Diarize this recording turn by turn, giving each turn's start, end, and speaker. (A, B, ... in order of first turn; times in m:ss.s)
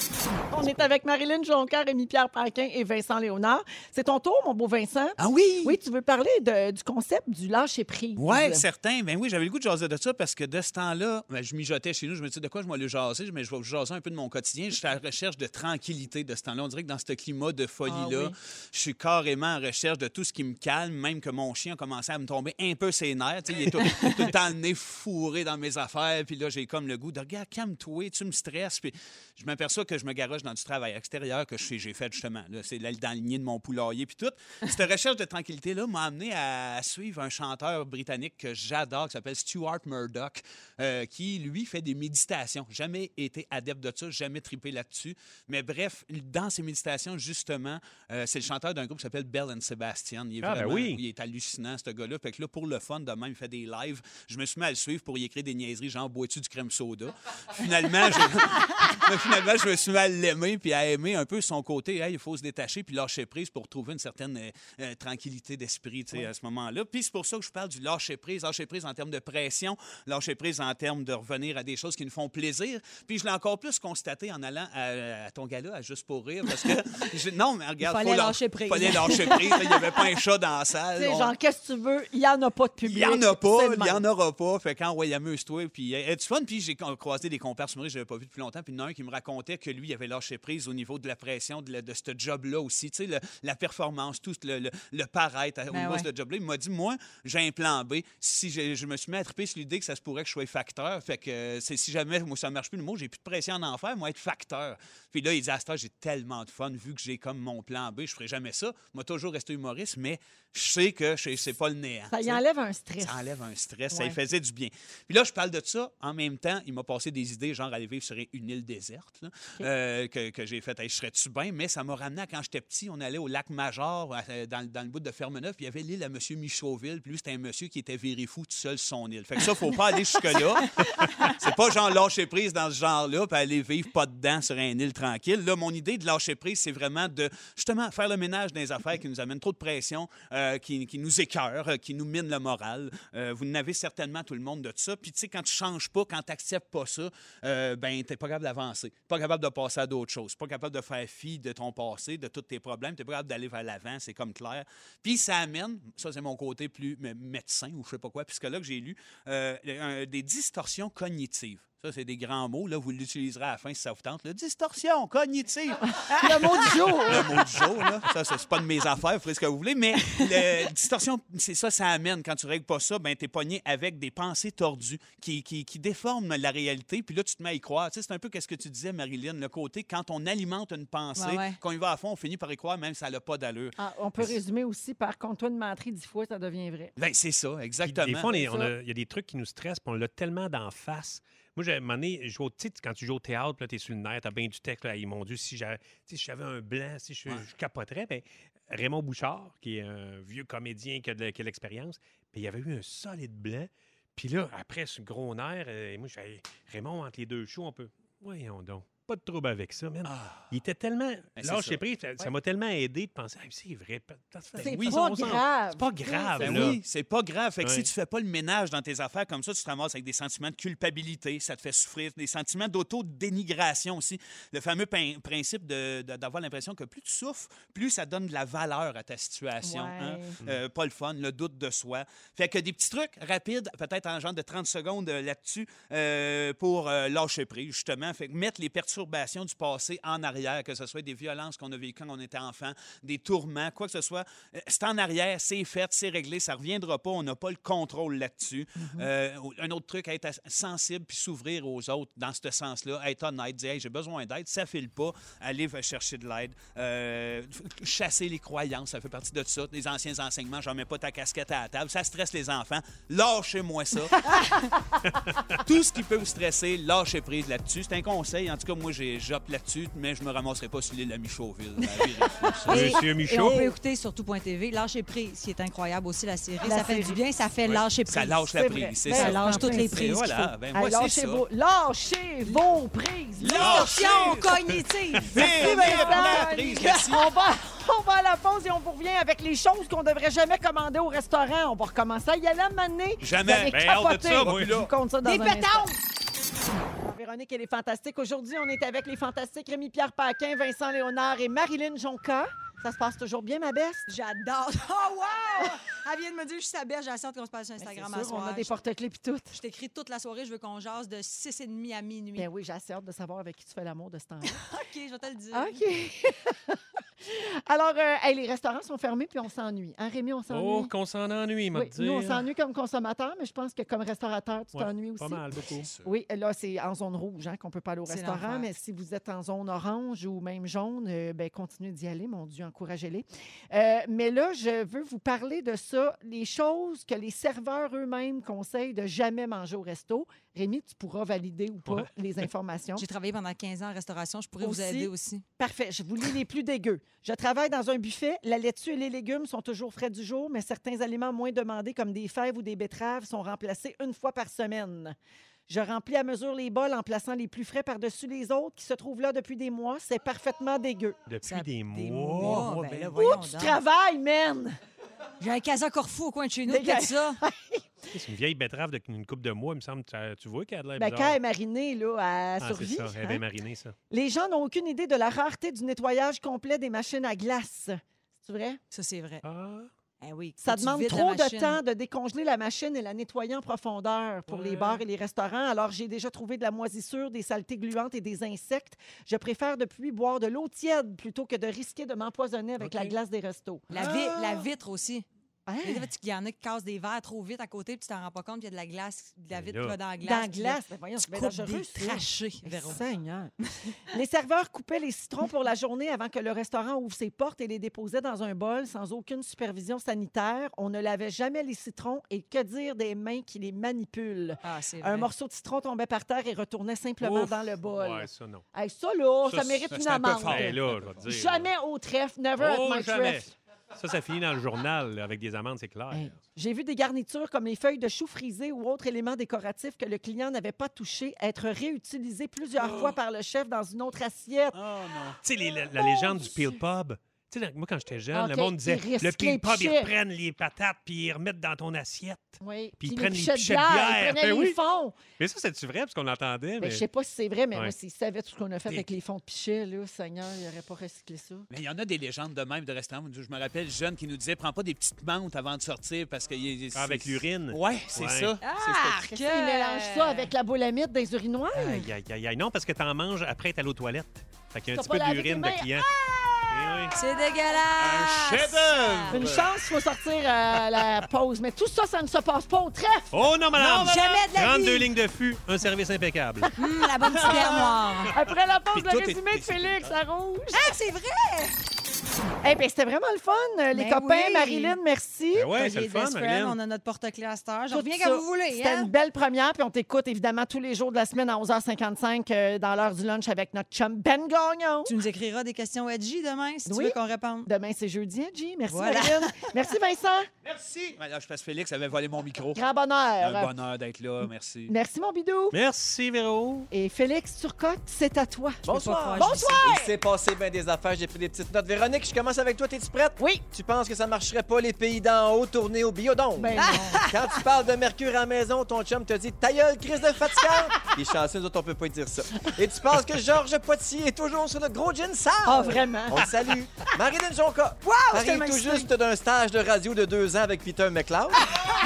0:00.5-0:08.6 A
0:05.2-0:05.8 B
0:08.2-1:21.3 B
0:17.9-0:18.3 C
0:50.4-0:51.0 D
1:17.8-1:19.8 C
1:21.0-1:24.0 A
1:22.8-1:52.4 B
1:35.7-1:36.1 C
1:52.1-1:53.3 A
1:53.0-3:04.4 B
1:53.9-1:54.2 A
2:45.9-2:47.6 A
3:01.2-3:01.6 C
3:03.8-3:06.9 A
3:07.0-3:08.4 B
3:07.8-3:36.8 D
3:08.3-3:08.7 A
3:30.0-3:30.5 B
3:31.4-3:31.8 B
3:34.6-3:35.0 B
3:34.6-3:36.8 A
3:36.4-4:24.3 B
3:37.6-3:37.9 D
3:49.6-3:50.4 A
4:08.8-4:09.1 A
4:25.0-4:25.6 D
4:25.5-4:33.0 B
4:32.7-4:33.7 D
4:32.7-4:40.5 C
4:36.6-4:37.2 A
4:37.6-4:41.4 B
4:38.5-4:44.3 A
4:43.4-4:44.5 B
4:43.4-4:46.9 C
4:44.5-4:45.5 D
4:45.3-4:47.3 B
4:45.3-4:55.9 A
4:53.2-4:54.9 B
4:53.7-4:54.8 D
4:55.2-4:56.0 C
4:57.0-5:04.0 A
5:04.1-5:08.7 C
5:07.8-5:09.6 A
5:09.5-5:12.5 C
5:12.4-5:14.6 A
5:14.4-5:15.8 C
5:15.5-5:20.9 A
5:20.5-5:22.5 D
5:21.7-5:25.4 A
5:24.7-5:25.9 D
5:25.8-5:26.1 B
5:26.0-5:43.0 A
5:28.0-5:28.7 C
5:43.0-5:45.4 C
5:44.6-5:55.2 A
5:55.7-6:01.2 A
6:01.2-6:03.1 D
6:01.4-6:03.8 C
6:02.5-6:03.1 B
6:03.2-6:04.8 A
6:05.4-6:07.4 C
6:06.7-6:08.1 A
6:08.1-6:11.4 D
6:11.0-6:13.4 A
6:12.6-6:14.0 D
6:14.1-6:18.8 A
6:18.9-6:19.4 C
6:19.4-6:19.9 D
6:20.2-6:21.8 C
6:20.6-6:34.3 A
6:24.5-6:25.0 D
6:32.8-6:33.2 D
6:33.9-6:35.2 C
6:35.6-6:36.1 A
6:35.8-6:43.0 C
6:39.5-6:40.0 D
6:40.2-6:43.5 A
6:44.1-7:03.5 A
6:54.6-6:55.3 C
6:57.2-6:58.6 D
6:59.4-7:01.7 D
6:59.9-7:01.2 B
7:02.6-7:06.4 D
7:06.1-7:14.8 A
7:12.9-7:13.1 D
7:14.7-7:15.4 B
7:15.4-7:24.8 D
7:15.8-7:16.8 A
7:18.3-7:20.1 A
7:22.6-7:25.2 A
7:25.4-7:27.0 D
7:26.8-7:31.7 A
7:31.7-7:39.1 B
7:36.9-7:38.6 D
7:38.6-7:40.5 C
7:39.1-7:42.1 A
7:41.7-7:46.1 D
7:44.9-7:47.2 A
7:46.7-7:47.1 D
7:47.1-7:49.4 C
7:48.0-7:49.7 B
7:49.3-7:53.4 A
7:53.3-7:56.7 D
7:53.7-7:55.1 C
7:56.8-7:58.4 C
7:57.2-8:00.9 A
7:58.9-7:59.7 D
7:58.9-8:00.0 B
8:00.7-8:01.8 C
8:02.6-8:05.7 A
8:03.9-8:05.0 C
8:05.5-8:06.8 D
8:05.7-8:09.1 C
8:07.9-8:15.1 A
8:15.0-8:17.7 C
8:16.9-8:20.5 A
8:18.9-8:19.7 C
8:20.6-8:22.9 B
8:22.8-8:23.7 A
8:23.4-8:24.9 B
8:24.9-8:25.8 A
8:25.7-8:26.9 D
8:26.9-8:28.8 A
8:28.8-8:29.9 C
8:28.8-8:51.6 E
8:29.4-8:30.1 A
8:33.4-8:33.6 A
8:36.5-8:37.3 A
8:36.8-8:37.3 C
8:45.6-8:46.5 A
8:48.0-8:49.0 C
8:48.1-8:49.1 A